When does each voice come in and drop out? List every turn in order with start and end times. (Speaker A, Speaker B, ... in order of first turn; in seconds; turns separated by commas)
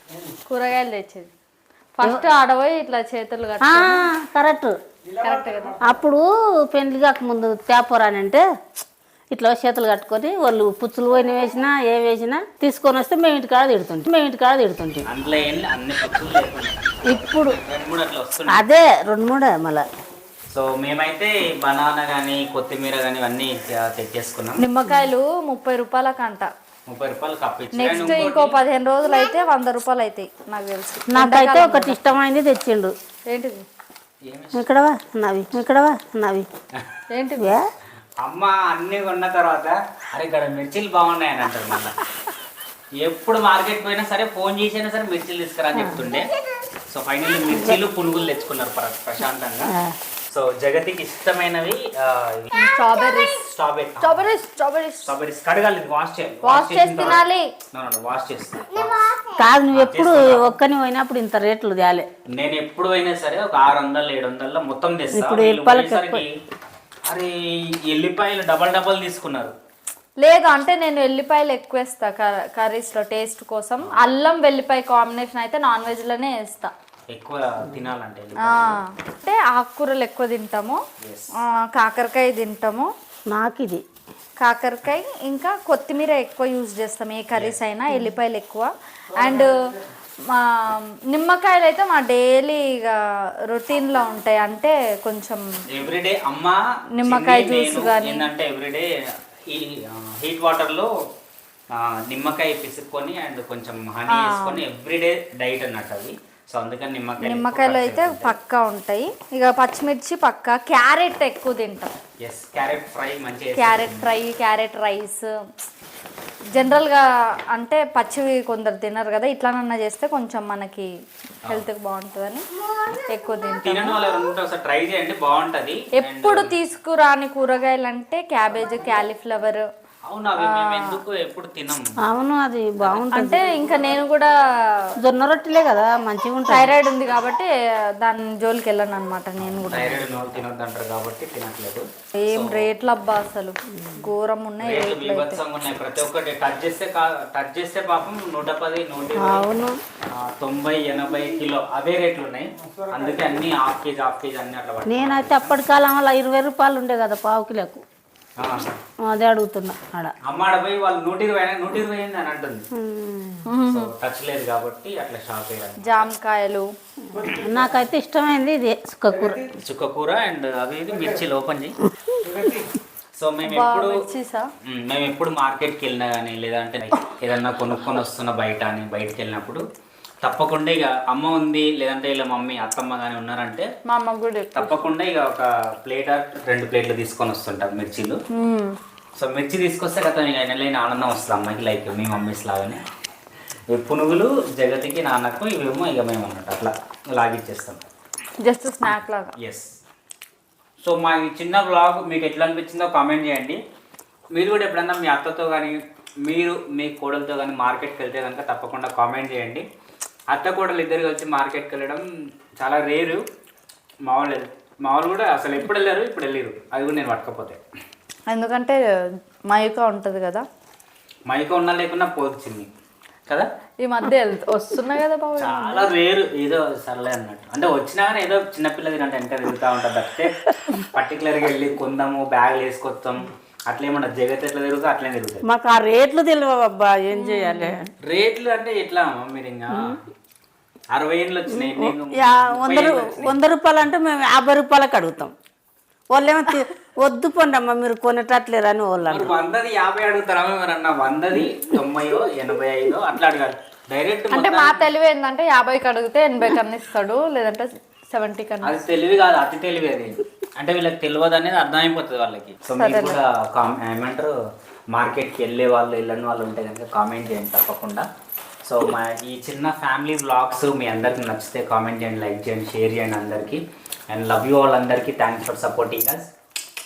Speaker A: 0.5-1.3, Speaker A: 2.0-4.1, Speaker B: 3.6-4.8, Speaker A: 5.2-5.8, Speaker B: 5.9-15.1, Speaker C: 15.1-18.6, Speaker B: 17.1-17.6, Speaker B: 18.5-19.9, Speaker C: 20.5-24.6, Speaker A: 24.6-26.5, Speaker C: 26.9-28.6, Speaker A: 27.8-32.0, Speaker B: 31.1-32.9, Speaker A: 33.3-33.6, Speaker C: 34.2-34.6, Speaker B: 34.6-36.5, Speaker A: 37.1-37.6, Speaker C: 38.2-42.0, Speaker C: 43.0-46.3, Speaker B: 45.8-46.0, Speaker C: 46.9-49.7, Speaker B: 47.5-47.8, Speaker C: 50.3-52.5, Speaker A: 52.5-53.4, Speaker C: 53.4-54.3, Speaker A: 54.0-55.1, Speaker C: 55.0-59.0, Speaker A: 56.4-57.5, Speaker B: 59.4-62.1, Speaker C: 59.7-60.6, Speaker C: 62.3-66.3, Speaker B: 65.1-66.2, Speaker C: 67.1-69.5, Speaker A: 70.2-76.7, Speaker C: 73.8-74.1, Speaker C: 77.1-78.8, Speaker A: 78.5-80.8, Speaker C: 81.0-81.3, Speaker A: 81.5-82.9, Speaker B: 83.3-83.8, Speaker A: 84.4-89.5, Speaker A: 90.3-93.0, Speaker A: 93.5-95.4, Speaker C: 95.7-98.9, Speaker A: 97.0-98.3, Speaker C: 99.5-100.9, Speaker C: 101.7-108.3, Speaker A: 104.1-104.6, Speaker A: 107.2-111.9, Speaker C: 112.2-114.1, Speaker A: 113.6-115.2, Speaker A: 116.5-117.0, Speaker A: 117.5-120.9, Speaker A: 121.5-122.4, Speaker A: 123.1-124.0, Speaker C: 123.6-126.5, Speaker A: 126.0-129.6, Speaker C: 130.1-131.9, Speaker A: 130.4-131.0, Speaker B: 132.0-133.5, Speaker A: 133.1-134.3, Speaker B: 135.0-136.7, Speaker A: 136.5-137.5, Speaker A: 138.0-140.1, Speaker C: 139.4-142.7, Speaker A: 142.2-145.4, Speaker C: 144.6-149.5, Speaker B: 149.2-149.8, Speaker C: 150.1-155.6, Speaker B: 154.9-157.8, Speaker C: 158.4-158.7, Speaker B: 159.0-160.1, Speaker C: 160.2-162.6, Speaker B: 162.8-163.4, Speaker A: 163.5-163.9, Speaker C: 163.7-166.1, Speaker A: 165.8-166.7, Speaker B: 167.1-169.5, Speaker C: 169.6-171.8, Speaker C: 173.2-174.0, Speaker A: 173.5-174.5, Speaker C: 174.7-179.6, Speaker C: 180.2-183.7, Speaker A: 183.9-184.8, Speaker C: 184.6-188.2, Speaker A: 188.4-188.7, Speaker C: 189.2-192.8, Speaker C: 193.7-197.8, Speaker A: 198.4-199.3, Speaker C: 199.4-199.8, Speaker C: 200.8-203.6, Speaker C: 204.3-209.6, Speaker C: 210.3-212.0, Speaker C: 212.6-213.2, Speaker C: 214.1-217.6, Speaker A: 218.3-218.8, Speaker A: 219.5-220.4, Speaker C: 221.3-222.7, Speaker A: 223.8-225.9, Speaker C: 225.4-230.4, Speaker C: 230.9-235.4, Speaker B: 235.4-237.9, Speaker A: 237.1-237.8, Speaker C: 238.1-240.0, Speaker B: 239.7-240.0, Speaker C: 240.9-243.4, Speaker B: 241.5-245.3, Speaker B: 246.1-249.3, Speaker C: 249.0-254.9, Speaker A: 254.3-258.7, Speaker C: 258.6-264.3, Speaker A: 262.8-263.2, Speaker C: 264.9-268.1, Speaker C: 268.6-276.3